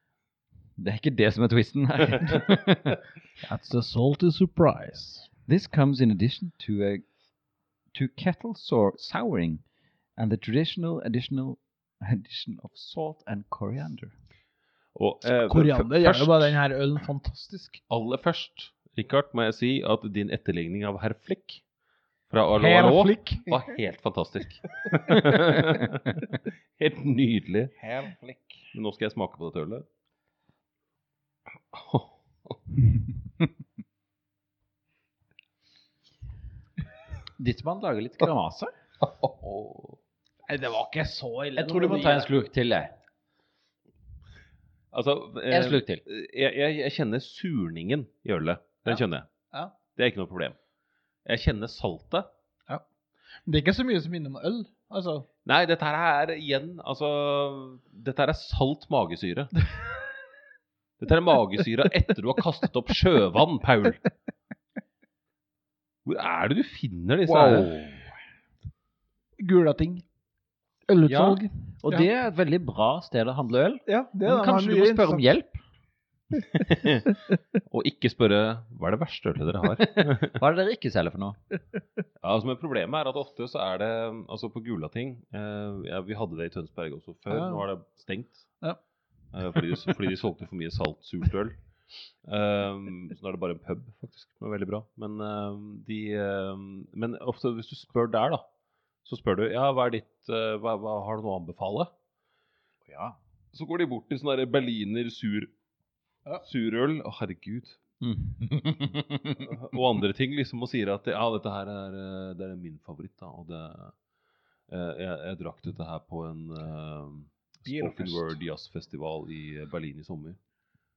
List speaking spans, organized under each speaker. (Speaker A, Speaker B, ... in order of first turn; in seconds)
Speaker A: 0.8-3.0, 5.5-7.0, 7.9-9.6, 10.2-14.1, 37.4-38.7, 41.5-42.9, 45.5-46.0, 67.3-67.7, 71.1-75.6, 80.0-81.4, 102.8-103.2, 108.0-109.5
Speaker B: 3.4-5.3, 15.2-17.8, 22.6-23.6, 27.8-28.6, 40.5-42.3, 48.9-49.7, 53.4-55.3, 67.3-67.9, 69.4-70.0, 70.9-72.1, 73.9-75.3, 87.3-87.6, 117.7-118.3
Speaker C: 14.9-16.6, 17.9-21.6, 22.3-27.7, 28.7-29.9, 31.7-32.6, 39.0-40.0, 44.9-49.3, 49.9-50.5, 51.2-52.3, 55.4-59.6, 61.0-64.0, 66.0-67.7, 76.5-80.4, 82.2-88.5, 89.3-91.5, 92.2-98.4, 99.0-101.9, 103.5-105.5, 106.4-107.8, 109.4-113.9, 114.7-120.4